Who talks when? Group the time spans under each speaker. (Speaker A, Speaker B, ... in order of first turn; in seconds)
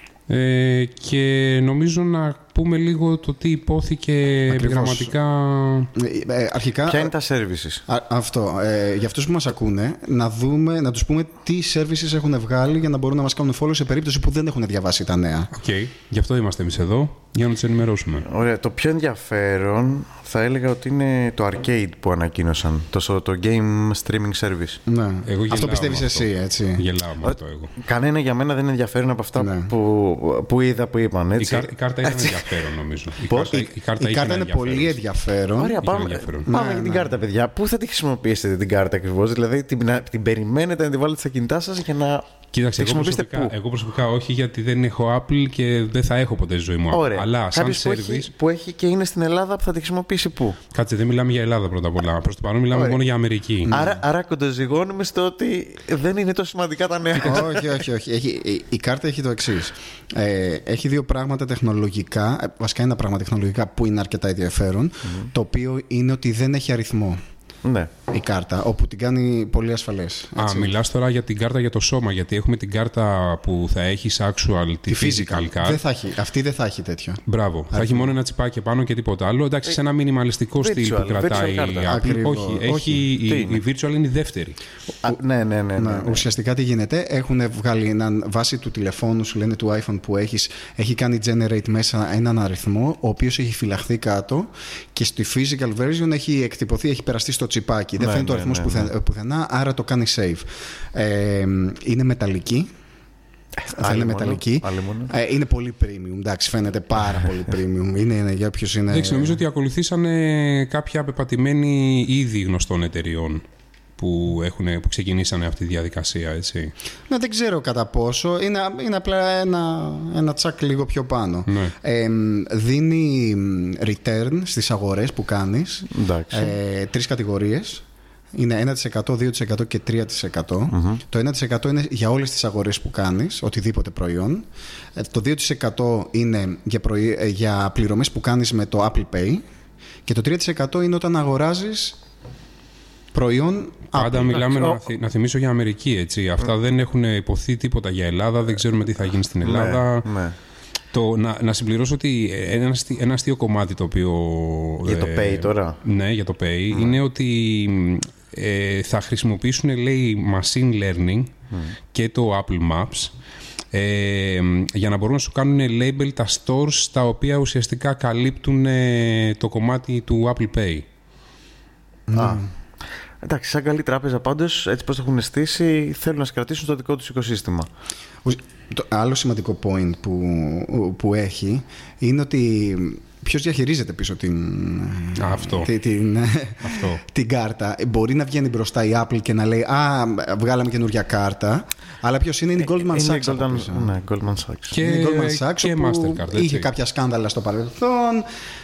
Speaker A: 0.3-5.9, 15.5-18.3, 25.3-27.7, 31.4-35.0, 35.8-36.5, 42.5-48.3, 50.7-53.8, 70.4-75.8, 77.3-84.6, 108.9-113.4, 114.0-116.7, 121.5-121.7, 143.9-150.1, 150.9-161.3, 161.9-163.1, 163.7-170.9, 185.2-185.7, 186.6-187.0, 194.7-196.7
Speaker B: 4.5-5.1, 6.0-7.1, 7.9-15.5, 24.9-26.9, 29.4-29.7, 33.3-35.8, 36.5-37.2, 57.2-67.2, 68.1-70.8, 74.9-78.1, 81.9-83.1, 85.8-102.7, 103.7-109.4, 117.1-139.4, 140.1-142.0, 143.1-144.5, 172.1-172.5, 178.2-193.9, 194.8-198.3
Speaker C: 6.9-7.8, 18.2-24.8, 27.2-32.5, 35.6-43.5, 46.9-50.6, 52.7-53.0, 53.7-57.8, 67.7-67.9, 80.6-82.0, 83.2-83.6, 85.0-86.2, 98.0-98.9, 103.6-105.1, 125.9-126.5, 130.7-131.0, 144.3-144.8, 149.4-150.4, 154.8-155.8, 156.7-157.0, 172.2-172.4, 173.2-177.7, 192.8-194.8